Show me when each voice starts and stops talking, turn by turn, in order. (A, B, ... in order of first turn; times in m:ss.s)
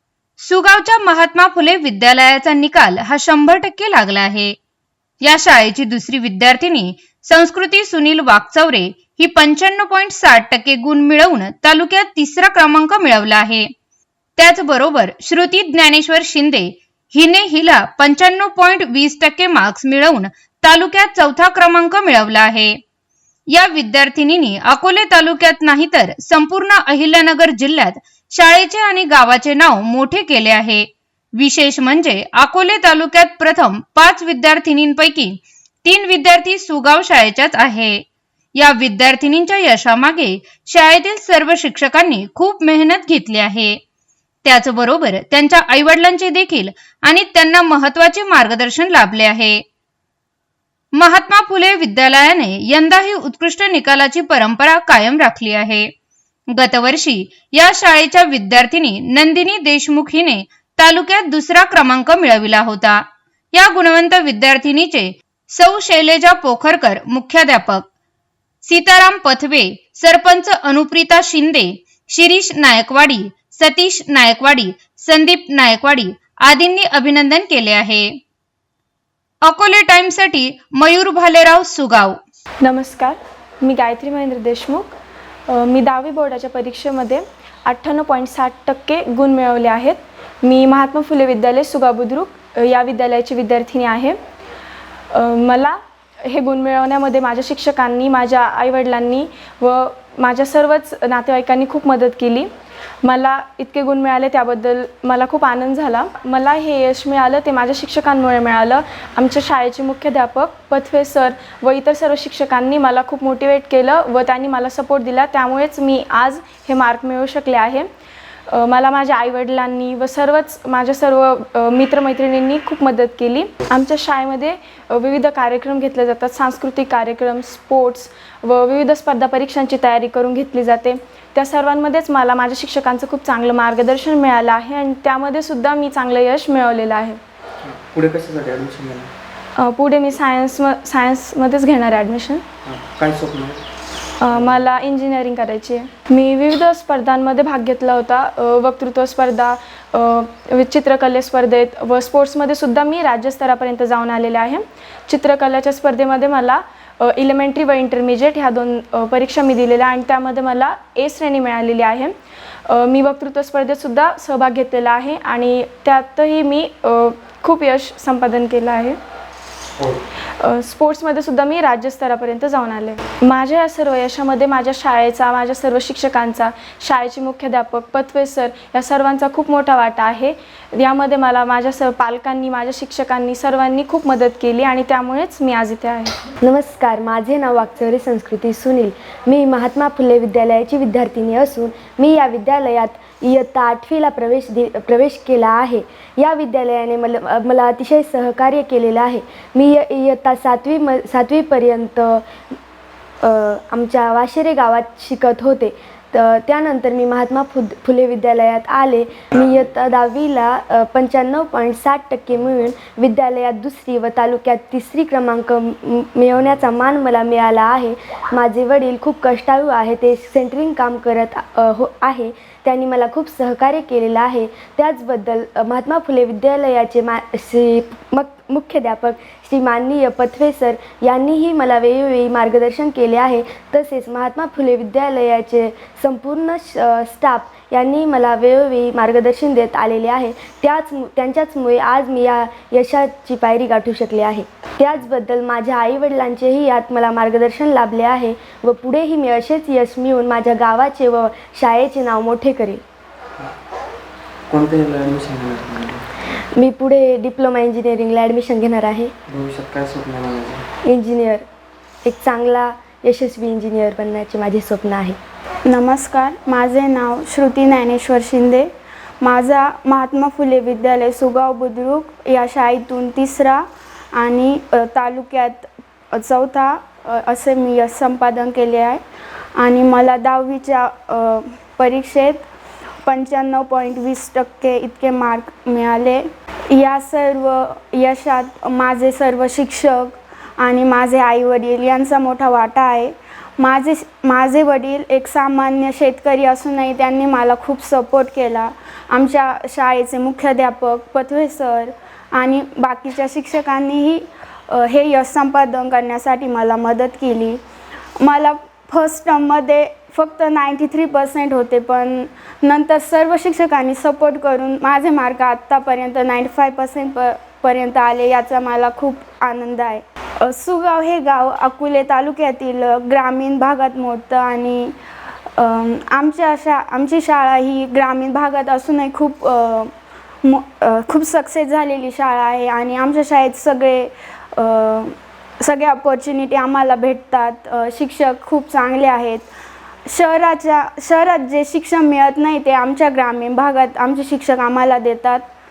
0:00.4-0:04.6 A
0:05.2-0:13.7 A
0:14.4-0:22.8 A
0:23.5-0:38.0 A
0:38.6-0:43.8 A
0:44.4-0:49.6 A
0:51.0-0:55.9 A
0:56.5-1:07.9 A
1:08.6-1:18.2 A
1:19.5-1:22.2 A
1:22.6-1:24.9 B
1:25.5-1:34.2 B
1:35.1-1:42.5 B
1:43.0-1:57.9 B
1:58.5-2:17.2 B
2:17.6-2:19.1 C
2:19.6-2:22.4 B
2:22.6-2:23.6 C
2:24.2-2:42.1 B
2:24.3-2:24.7 C
2:42.7-2:49.0 B
2:50.4-3:06.1 B
3:06.4-3:22.2 D
3:23.2-4:12.8 D
3:29.4-3:29.6 C
4:14.5-4:16.0 C
4:16.6-4:19.1 D
4:19.3-4:20.6 C
4:20.8-4:21.4 D
4:22.0-4:25.2 D
4:25.7-4:28.7 E
4:29.2-4:39.0 E
4:39.6-4:42.4 E
4:43.0-5:07.6 E
5:08.2-5:25.0 E
5:25.5-5:29.9 E
5:30.4-5:39.5 E
5:40.1-5:45.4 E